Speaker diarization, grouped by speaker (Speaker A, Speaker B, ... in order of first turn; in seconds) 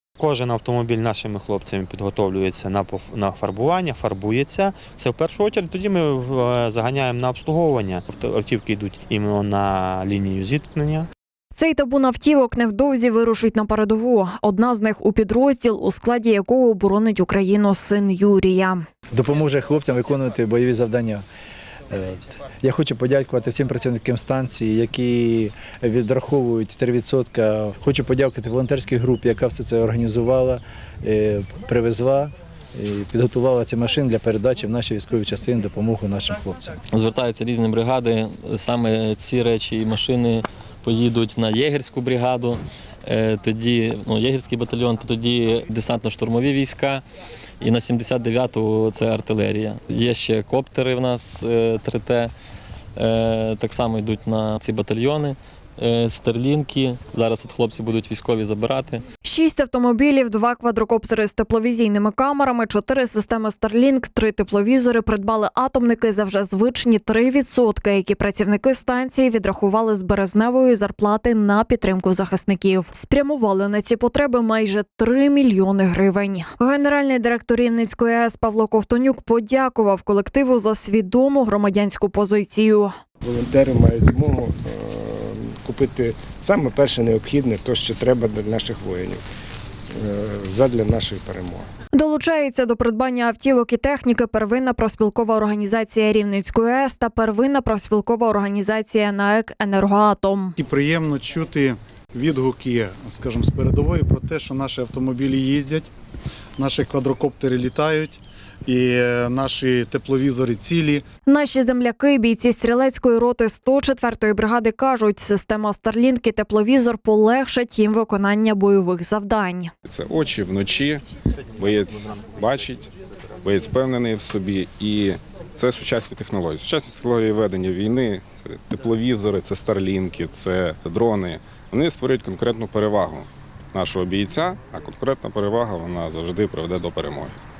Speaker A: 0.2-11.1
Speaker B: 11.6-18.9, 59.2-82.9, 91.9-100.5, 111.3-119.7
Speaker C: 19.1-21.2, 21.9-36.7
Speaker D: 36.9-47.0, 47.6-52.3, 53.0-59.0
Speaker E: 83.2-89.2, 90.0-91.7
Speaker F: 100.6-105.9, 106.6-111.0
Speaker G: 119.8-121.0, 121.6-122.9, 123.4-137.4